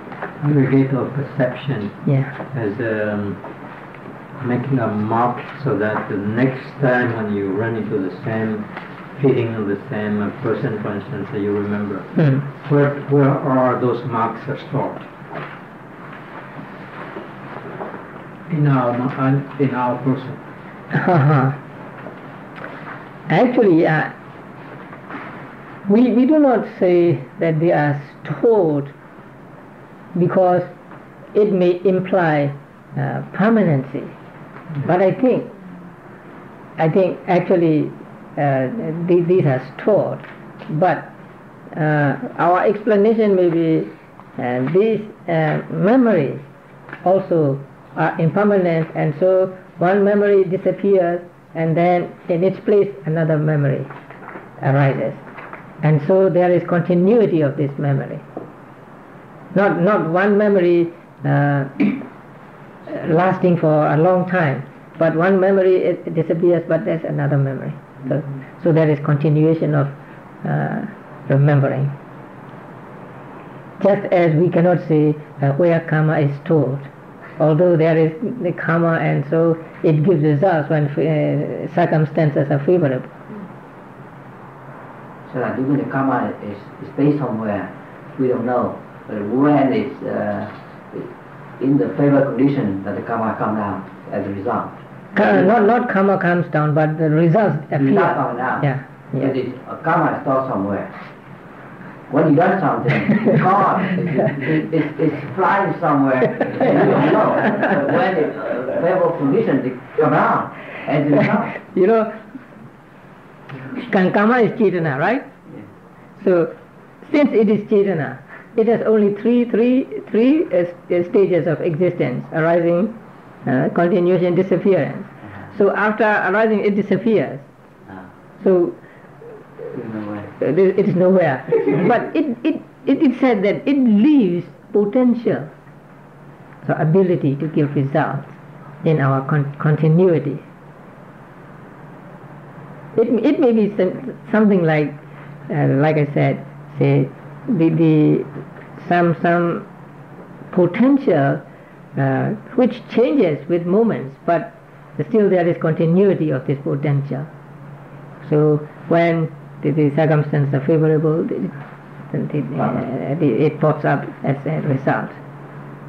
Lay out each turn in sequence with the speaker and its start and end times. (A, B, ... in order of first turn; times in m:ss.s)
0:00.4-0:03.5 A
0:02.0-0:02.3 B
0:04.4-0:15.1 A
0:18.5-0:20.4 A
0:20.9-0:21.6 B
0:23.3-0:24.1 B
0:25.8-0:28.9 B
0:30.1-0:30.7 B
0:31.3-0:34.1 B
0:34.8-0:35.5 B
0:36.8-0:41.1 B
0:41.7-0:46.4 B
0:47.0-0:53.9 B
0:54.6-0:55.2 B
0:55.8-0:58.2 B
0:59.5-1:02.0 B
1:02.8-1:11.9 B
1:13.8-1:23.4 B
1:25.3-1:31.1 C
1:31.6-1:35.5 C
1:35.1-1:39.4 B
1:37.8-1:38.7 C
1:39.2-1:41.0 C
1:42.1-1:51.6 C
1:51.5-1:52.2 B
1:53.7-1:55.3 B
1:56.2-2:07.4 B
2:08.4-2:08.8 B
2:09.7-2:10.3 C
2:10.4-2:15.5 B
2:16.6-2:20.4 B
2:22.9-2:29.6 B
2:30.5-2:31.4 B
2:32.0-2:37.3 B
2:38.2-2:41.5 B
2:42.1-2:45.2 B